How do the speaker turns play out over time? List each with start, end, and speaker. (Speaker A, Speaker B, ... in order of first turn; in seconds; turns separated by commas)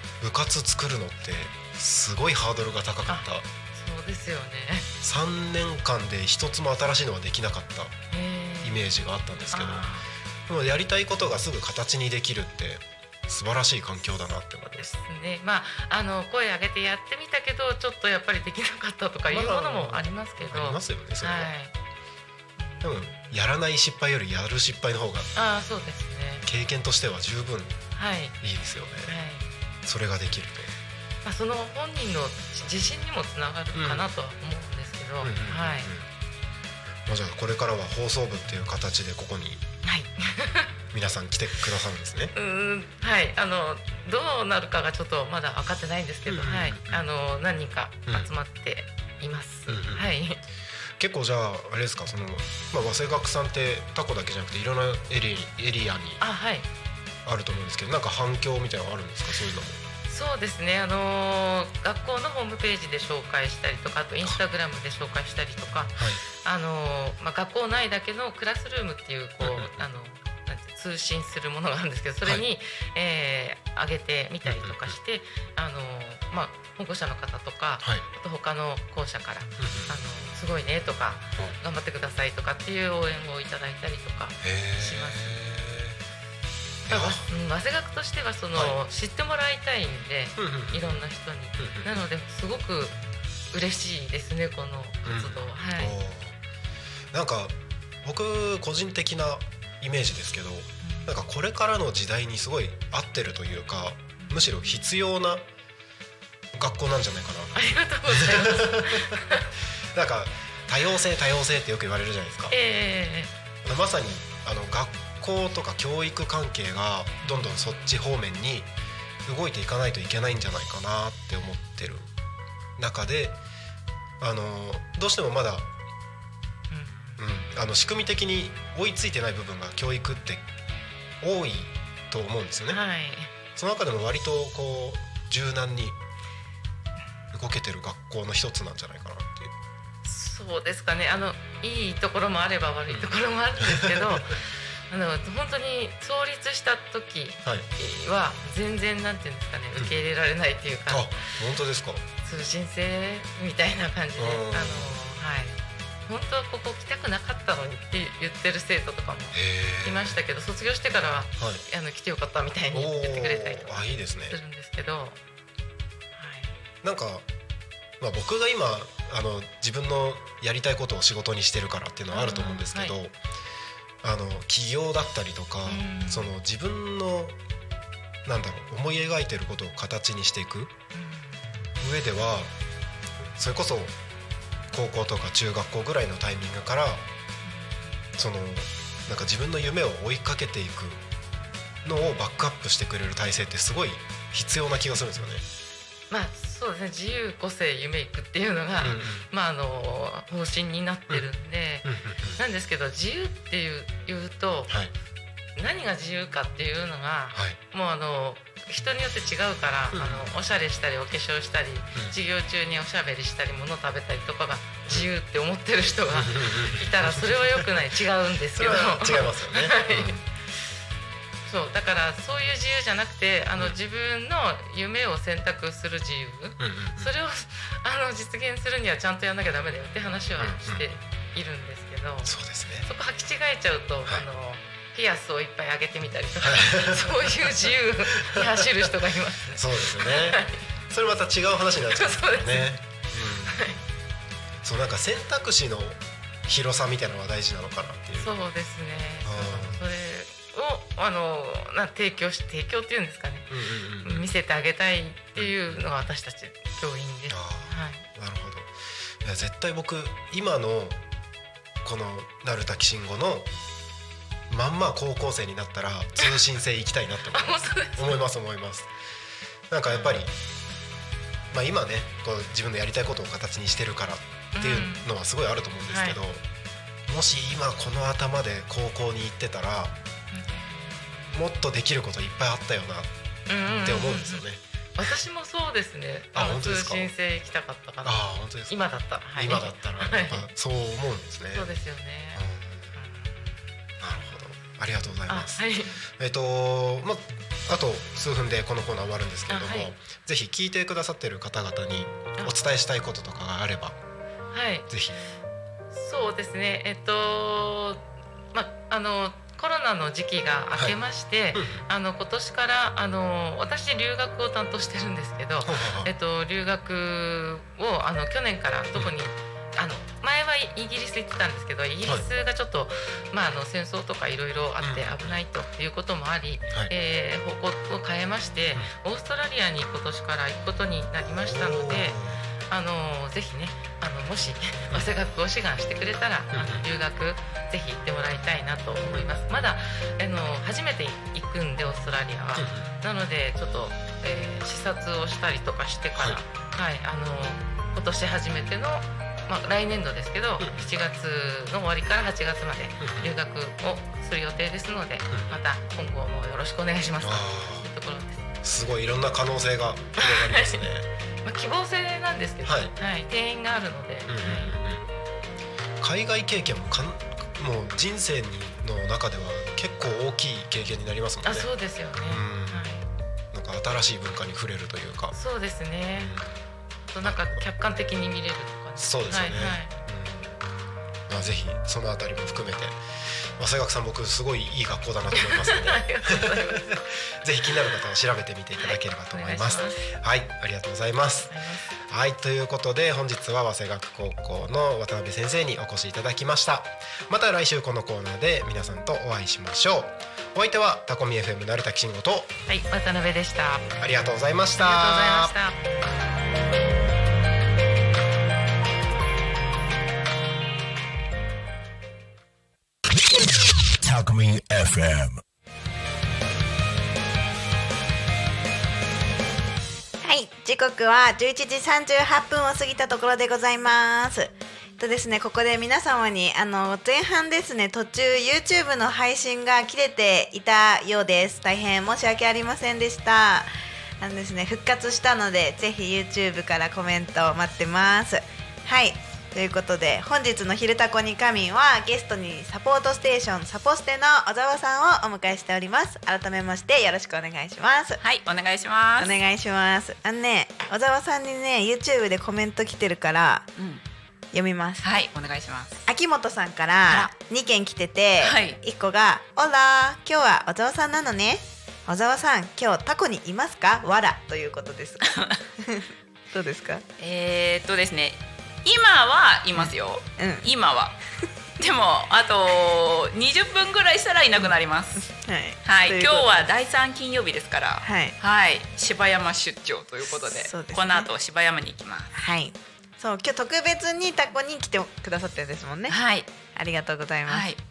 Speaker A: 0.2-3.4, Speaker B: 3.1-4.9, Speaker A: 5.0-8.0, Speaker B: 8.1-8.9, Speaker A: 8.6-9.9, Speaker B: 9.5-10.1, Speaker A: 10.5-14.9, Speaker B: 14.8-21.7, Speaker A: 19.3-21.5, Speaker B: 22.6-23.4, Speaker A: 22.8-25.3, Speaker B: 25.3-26.4, Speaker A: 26.4-27.8, Speaker B: 27.9-28.4, Speaker A: 28.4-29.2, Speaker B: 29.1-29.4, Speaker A: 29.8-30.7, Speaker B: 31.2-35.9, Speaker A: 33.7-34.1, Speaker A: 35.2-36.0, Speaker A: 37.1-39.6, Speaker B: 39.8-40.7, Speaker A: 40.9-42.3, Speaker B: 42.3-50.4, Speaker A: 46.2-47.0, Speaker A: 49.7-50.1, Speaker A: 51.0-56.2, Speaker B: 56.2-56.7, Speaker A: 57.2-59.8, Speaker B: 60.1-85.3, Speaker A: 66.0-66.2, Speaker A: 69.4-69.7, Speaker A: 74.4-75.0, Speaker A: 79.6-79.9, Speaker A: 84.4-86.0, Speaker B: 86.9-93.0, Speaker A: 86.9-87.3, Speaker A: 90.4-90.9, Speaker A: 91.6-91.9, Speaker B: 93.5-96.0, Speaker A: 95.0-96.3, Speaker A: 97.1-105.4, Speaker B: 100.8-101.2, Speaker B: 104.2-104.9, Speaker A: 106.5-107.6, Speaker B: 107.5-109.4, Speaker A: 108.1-109.0, Speaker A: 109.9-112.5, Speaker B: 112.5-113.3, Speaker A: 113.6-118.7, Speaker B: 117.2-117.9, Speaker A: 119.2-122.1, Speaker A: 122.8-123.4, Speaker A: 124.2-125.7, Speaker B: 126.7-127.2, Speaker A: 127.2-130.4, Speaker A: 131.2-132.8, Speaker B: 132.7-133.3, Speaker A: 133.5-136.0, Speaker A: 137.3-139.5, Speaker B: 140.0-144.4, Speaker A: 143.6-144.2, Speaker B: 144.9-151.3, Speaker A: 150.9-152.0, Speaker B: 152.2-165.2, Speaker A: 154.2-155.0, Speaker A: 159.3-160.2, Speaker A: 161.3-161.6, Speaker A: 162.7-164.4, Speaker B: 166.2-166.6, Speaker A: 166.8-167.2, Speaker A: 168.0-173.2, Speaker B: 172.1-172.9, Speaker A: 174.0-177.3, Speaker B: 175.7-176.3, Speaker A: 178.2-180.7, Speaker B: 180.9-181.4, Speaker A: 181.8-182.5, Speaker A: 183.3-183.9, Speaker A: 184.7-187.0, Speaker B: 187.4-188.0, Speaker A: 188.2-191.0, Speaker A: 191.8-195.4, Speaker B: 196.1-204.7, Speaker A: 198.8-199.3, Speaker A: 201.8-202.4, Speaker A: 204.7-204.9, Speaker B: 205.6-220.2, Speaker A: 207.3-207.6, Speaker A: 209.9-210.4, Speaker A: 216.1-217.8, Speaker A: 218.6-220.2, Speaker B: 221.5-232.3, Speaker A: 226.6-227.1, Speaker A: 230.4-230.8, Speaker A: 232.2-232.9, Speaker B: 232.8-240.6, Speaker A: 236.4-238.6, Speaker A: 239.5-243.6, Speaker B: 241.9-243.8, Speaker A: 244.6-248.3, Speaker B: 248.2-253.5, Speaker A: 249.2-249.8, Speaker A: 253.5-254.3, Speaker B: 254.0-258.0, Speaker A: 255.3-255.8, Speaker A: 257.3-258.7, Speaker A: 259.2-261.0, Speaker A: 261.8-263.5, Speaker A: 264.5-268.9, Speaker B: 267.3-268.2, Speaker A: 269.7-270.3, Speaker B: 269.9-270.2, Speaker A: 271.5-276.4, Speaker B: 274.5-275.1, Speaker B: 275.9-276.2, Speaker A: 277.1-279.9, Speaker B: 280.3-281.4, Speaker A: 281.3-283.1, Speaker B: 283.5-284.4, Speaker A: 283.8-284.6, Speaker B: 285.0-290.5, Speaker A: 286.3-287.1, Speaker A: 288.0-288.8, Speaker A: 289.4-291.7, Speaker B: 291.5-292.4, Speaker A: 292.3-292.9, Speaker B: 292.9-293.5, Speaker A: 294.0-295.6, Speaker B: 295.3-296.0, Speaker A: 296.2-303.9, Speaker B: 299.5-299.9, Speaker B: 304.5-304.9, Speaker A: 304.9-305.2, Speaker B: 305.9-332.2, Speaker A: 311.5-311.8, Speaker A: 315.6-316.1, Speaker A: 324.8-325.3, Speaker A: 331.4-332.4, Speaker B: 332.7-358.4, Speaker A: 336.5-336.9, Speaker A: 342.6-342.9, Speaker A: 346.1-346.4, Speaker A: 350.6-350.9, Speaker A: 353.0-353.3, Speaker A: 355.3-355.6, Speaker A: 357.2-357.9, Speaker A: 358.6-361.1, Speaker B: 360.1-360.9, Speaker B: 361.4-364.7, Speaker A: 362.6-362.9, Speaker A: 364.3-365.1, Speaker A: 366.0-371.7, Speaker B: 371.4-373.0, Speaker A: 372.3-372.9, Speaker A: 373.5-375.4, Speaker B: 375.3-376.3, Speaker A: 376.2-376.5, Speaker B: 377.1-380.0, Speaker A: 377.2-377.6, Speaker A: 379.0-380.6, Speaker A: 381.3-383.0, Speaker A: 383.6-391.5, Speaker B: 385.3-387.0, Speaker B: 388.8-390.1, Speaker B: 391.5-391.9, Speaker A: 392.1-402.5, Speaker B: 402.7-403.9, Speaker A: 404.0-405.5, Speaker B: 404.8-405.8, Speaker C: 413.1-415.4, Speaker D: 420.2-448.2, Speaker E: 448.2-449.3, Speaker D: 449.2-453.7, Speaker E: 453.8-454.0, Speaker D: 454.5-455.0, Speaker E: 455.0-456.1, Speaker D: 456.1-467.0, Speaker E: 457.1-457.3, Speaker E: 458.4-458.8, Speaker E: 465.3-465.6, Speaker E: 467.2-471.2, Speaker D: 470.4-470.6, Speaker E: 471.8-475.2, Speaker D: 474.6-476.7, Speaker E: 475.8-482.3, Speaker D: 478.0-478.3, Speaker D: 480.4-481.3, Speaker D: 482.3-486.1, Speaker E: 486.1-486.5, Speaker D: 486.7-487.7, Speaker E: 487.5-487.8